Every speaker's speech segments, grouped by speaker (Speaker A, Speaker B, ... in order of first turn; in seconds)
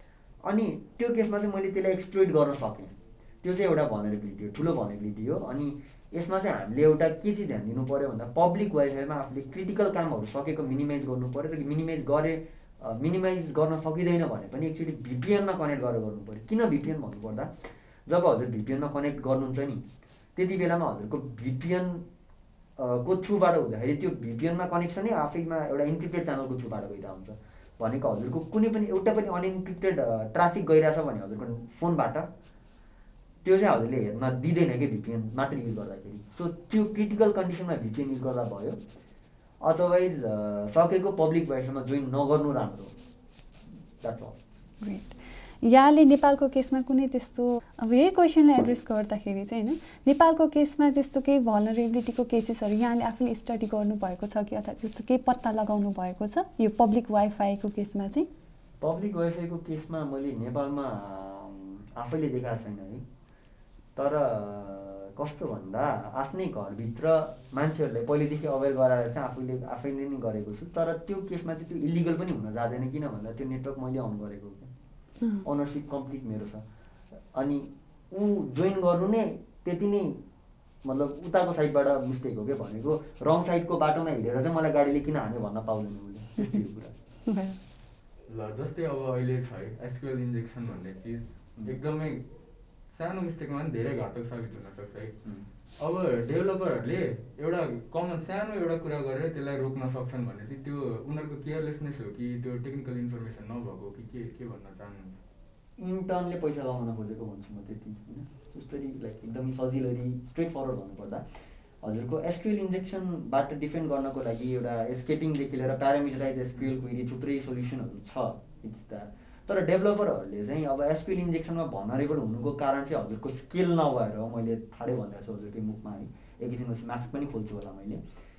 Speaker A: 0.4-19.8, 20.4-22.0, 22.8-32.3, 33.4-38.8, 39.6-42.9, 44.0-44.4, 58.8-63.0, 64.0-74.7, 75.4-76.6, 77.3-80.2, 80.8-86.9, 105.8-111.2, 111.8-128.0
Speaker B: 44.8-58.3, 87.2-87.6
Speaker C: 88.3-92.2, 92.9-95.2, 95.8-105.2